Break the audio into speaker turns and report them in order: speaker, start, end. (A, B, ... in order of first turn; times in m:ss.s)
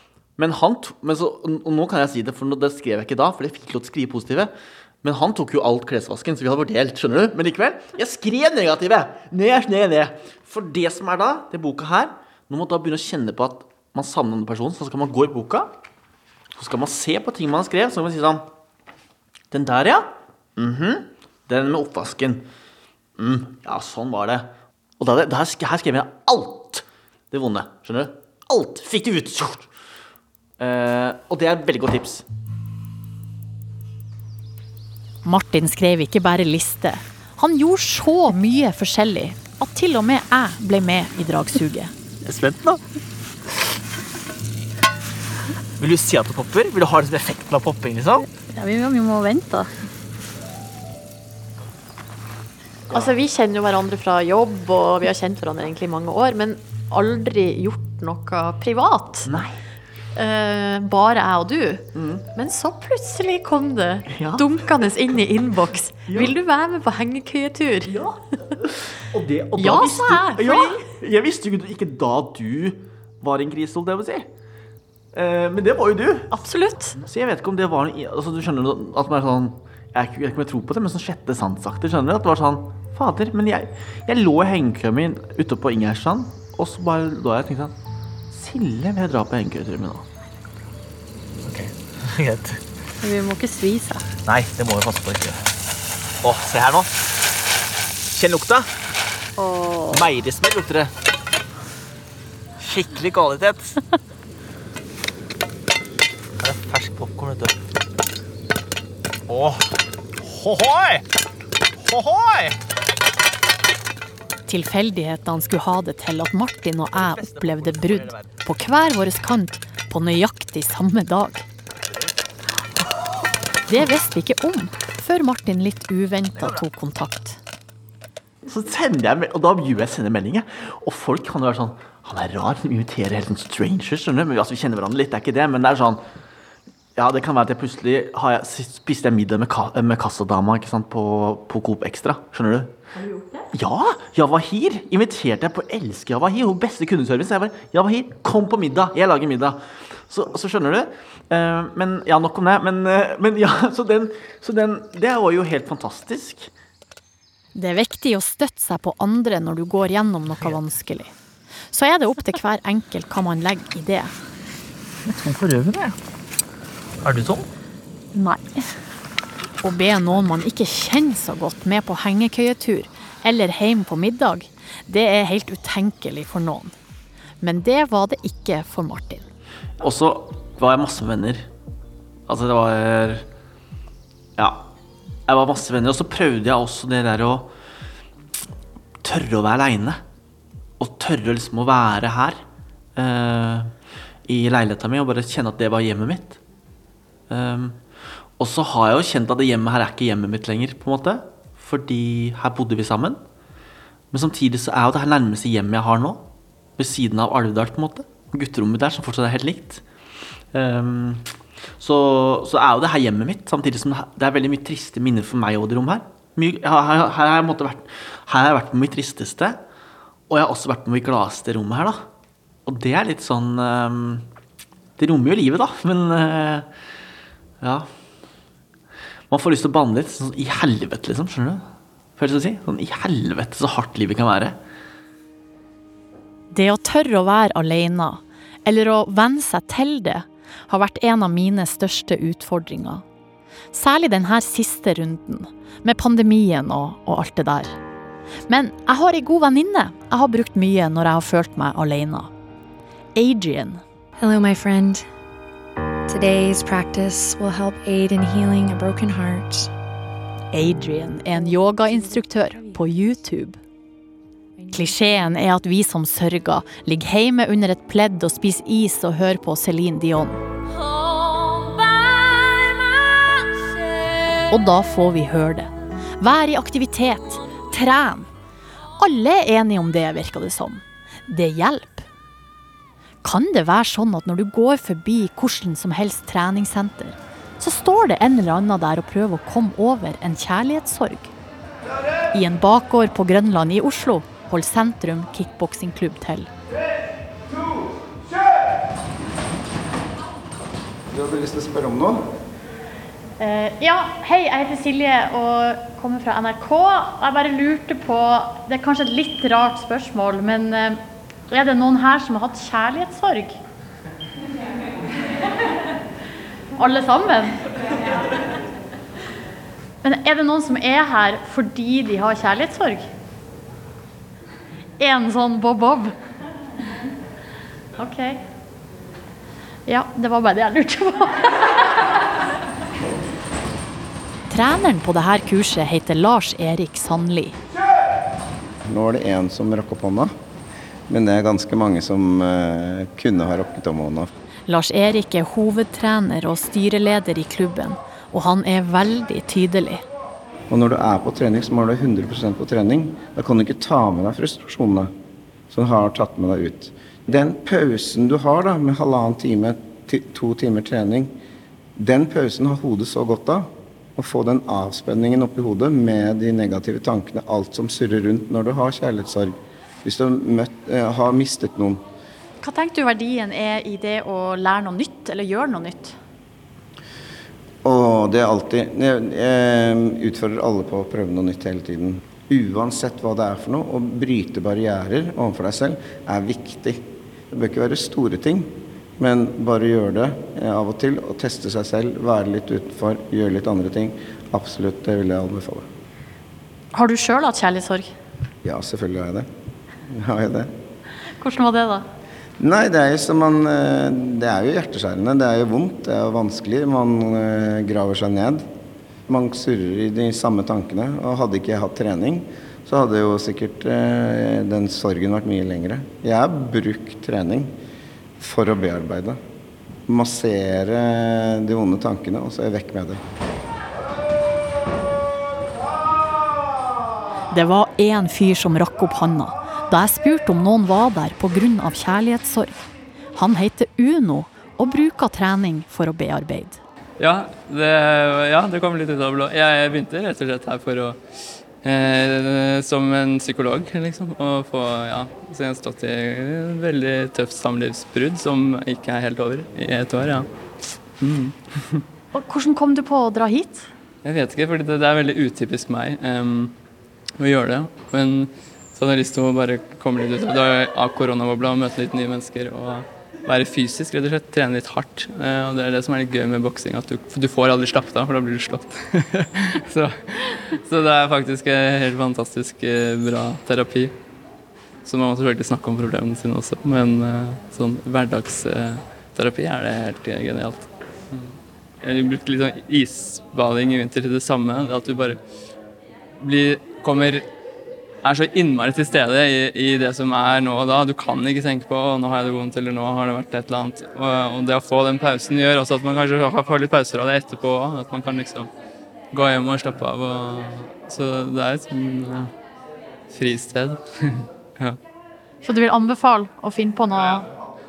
0:00.4-0:04.5 A
0:05.0-0:15.7 A
0:16.6-0:18.4 A
0:19.5-0:22.5 A
0:23.2-0:29.7 A
0:30.6-0:32.2 A
0:35.2-0:41.9 B
0:42.2-0:42.8 A
0:45.8-0:48.2 A
0:48.3-0:49.7 B
0:52.9-0:59.3 B
0:59.3-0:59.6 A
1:00.2-1:07.9 B
1:02.0-1:02.2 A
1:04.1-1:04.6 A
1:06.1-1:06.3 A
1:07.9-1:14.3 A
1:09.6-1:10.8 B
1:15.1-1:16.4 A
1:16.3-1:17.0 B
1:17.0-1:27.7 A
1:28.3-1:30.1 A
1:31.5-1:32.6 A
1:33.0-1:34.0 B
1:34.2-1:35.4 A
1:36.2-1:36.9 A
1:38.1-1:38.7 A
1:39.4-1:40.0 B
1:39.9-1:40.9 A
1:42.6-1:43.8 A
1:46.4-1:47.6 A
1:49.3-1:51.0 A
1:51.8-1:52.6 A
1:54.5-2:01.5 B
1:56.9-1:58.3 A
2:03.7-2:07.4 B
2:08.4-2:16.0 A
2:17.0-2:22.7 A
2:22.9-2:23.5 B
2:23.5-2:36.5 A
2:37.6-2:41.1 B
2:41.7-2:44.1 B
2:45.1-2:46.0 A
2:47.0-2:47.5 A
2:48.1-2:48.7 B
2:49.6-2:56.7 B
2:57.4-2:59.3 B
2:59.8-3:01.5 A
3:02.3-3:03.2 A
3:04.4-3:04.6 A
3:05.3-3:07.5 A
3:09.0-3:10.0 A
3:10.8-3:12.4 A
3:13.0-3:13.7 A
3:14.3-3:16.4 A
3:17.3-3:17.8 A
3:18.4-3:23.2 A
3:24.1-3:26.2 A
3:26.8-3:29.8 A
3:30.5-3:31.3 A
3:31.8-3:39.6 A
3:40.3-3:42.0 A
3:42.7-3:44.3 A
3:45.0-3:46.7 A
3:47.6-3:47.9 A
3:49.3-3:51.6 A
3:52.2-3:54.6 A
3:56.5-4:03.0 B
4:03.7-4:07.8 B
4:08.5-4:12.3 B
4:13.2-4:13.8 B
4:14.2-4:15.1 C
4:16.1-4:19.7 C
4:20.5-4:23.6 B
4:24.7-4:30.4 B
4:34.5-4:38.3 B
4:39.0-4:42.1 B
4:43.2-4:51.3 B
4:52.3-4:56.5 B
5:01.1-5:02.2 D
5:03.4-5:13.6 B
5:16.8-5:17.7 B
5:20.0-5:23.1 B
5:25.0-5:26.2 B
5:28.0-5:28.4 B
5:29.9-5:32.0 B
5:34.5-5:37.6 B
5:38.9-5:40.3 D
5:41.1-5:44.3 D
5:44.7-5:50.0 B
5:50.7-5:55.1 D
5:55.7-6:01.3 D
6:02.0-6:12.0 D
6:12.6-6:16.2 B
6:17.8-6:35.9 D
6:36.9-6:38.1 B
6:38.6-6:39.5 D
6:40.1-6:40.7 D
6:41.4-6:42.1 B
6:42.6-6:48.6 D
6:49.3-6:57.7 D
6:58.4-6:59.4 D
7:00.1-7:03.2 D
7:07.5-7:12.8 B
7:13.4-7:16.8 B
7:17.2-7:21.2 E
7:21.8-7:30.5 E
7:31.2-7:32.0 E
7:32.3-7:33.9 B
7:34.2-7:36.8 E
7:37.4-7:54.1 E
7:55.0-8:05.4 E
8:06.4-8:07.5 E
8:08.2-8:18.7 E
8:19.3-8:22.5 E
8:23.3-8:25.0 E
8:25.6-8:27.4 B